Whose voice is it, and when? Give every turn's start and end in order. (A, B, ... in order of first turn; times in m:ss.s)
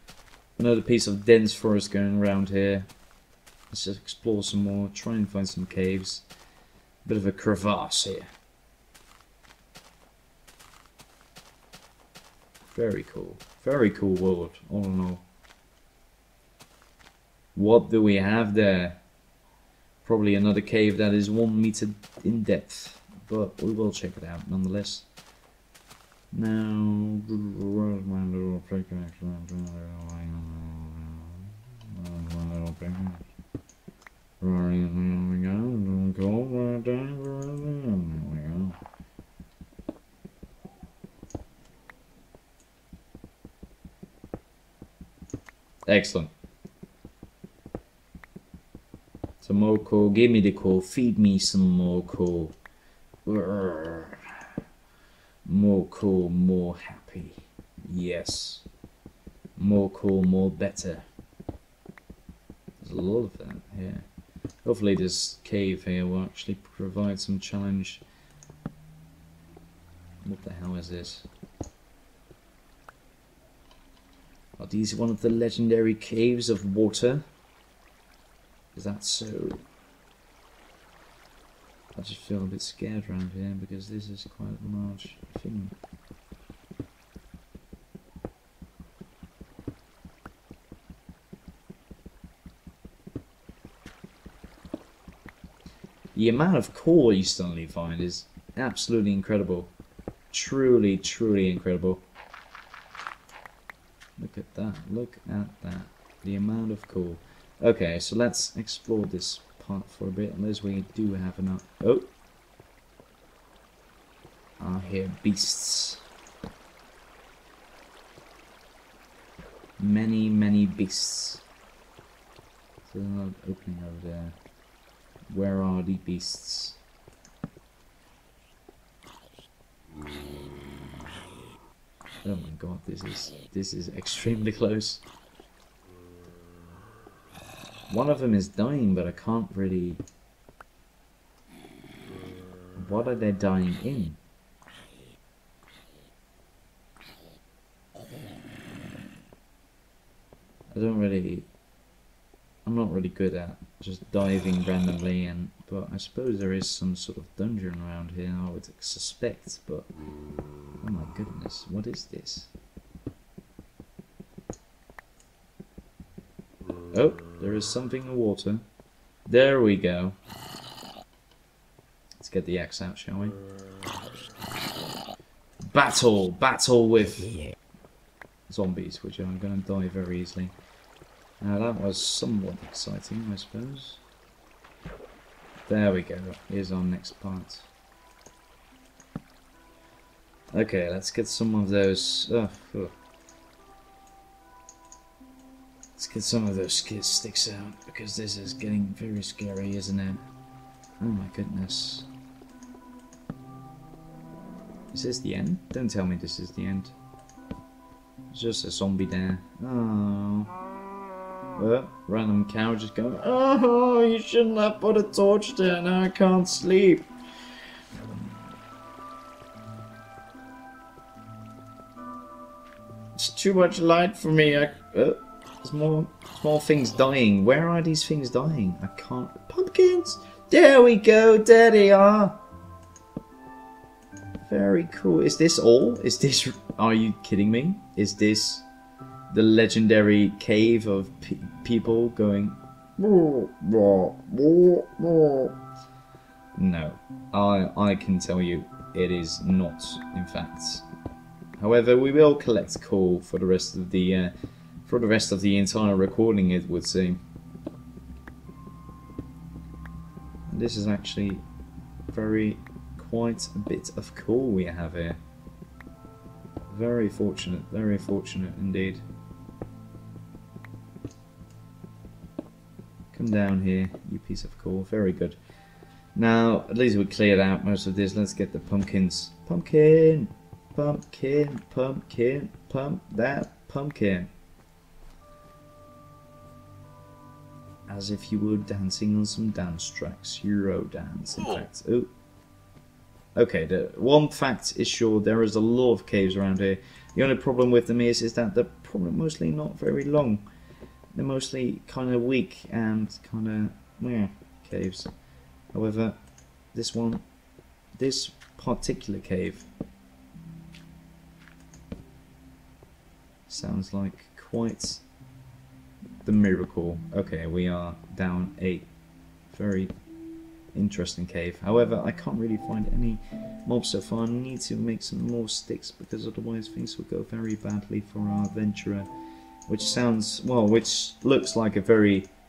0:00.6-0:02.9 A
0:03.7-0:06.2 A
0:07.0-0:08.3 A
0:12.7-0:15.2 A
0:17.5-0:19.0 A
0:20.0-0:25.1 A
0:26.3-0:33.2 A
0:34.4-0:38.8 A
0:45.9-0:46.3 A
0:49.4-0:52.6 A
0:53.2-0:54.2 A
0:55.4-0:58.7 A
0:59.6-1:01.0 A
1:02.8-1:04.0 A
1:04.6-1:08.0 A
1:10.2-1:11.3 A
1:14.6-1:17.2 A
1:18.7-1:19.6 A
1:21.9-1:25.8 A
1:36.1-1:39.7 A
1:40.3-1:42.0 A
1:44.2-1:52.1 A
1:54.6-1:56.0 A
1:59.8-2:01.4 A
2:02.9-2:04.4 A
2:05.3-2:06.8 A
2:12.2-2:15.0 A
2:17.9-2:20.0 A
2:22.8-2:24.2 A
2:30.7-2:31.5 A
2:32.6-2:39.9 A
2:40.8-2:42.5 A
2:46.9-2:48.6 A
2:49.2-2:50.2 A
2:52.2-2:53.4 A
2:55.7-2:57.4 A
2:58.5-3:00.5 A
3:01.4-3:04.0 A
3:05.6-3:07.7 A
3:10.5-3:12.9 A
3:16.0-3:20.2 A
3:21.0-3:22.1 A
3:24.9-3:26.9 A
3:28.3-3:30.5 A
3:31.6-3:37.1 A
3:43.2-3:52.4 A
3:54.4-3:58.6 A
3:59.3-4:05.6 A
4:06.6-4:10.8 A
4:11.6-4:14.3 A
4:14.8-4:17.2 A
4:20.5-4:21.4 A
4:22.1-4:25.2 A
4:26.7-4:29.0 A
4:33.1-4:35.4 A
4:36.2-4:44.3 A
4:47.9-4:52.1 A
4:53.4-5:00.4 A
5:01.2-5:05.1 A
5:05.7-5:06.2 A
5:06.7-5:07.2 A
5:07.9-5:09.7 A
5:13.5-5:15.0 A
5:16.2-5:18.9 A
5:19.5-5:19.9 A
5:20.7-5:29.1 A
5:29.7-5:32.3 A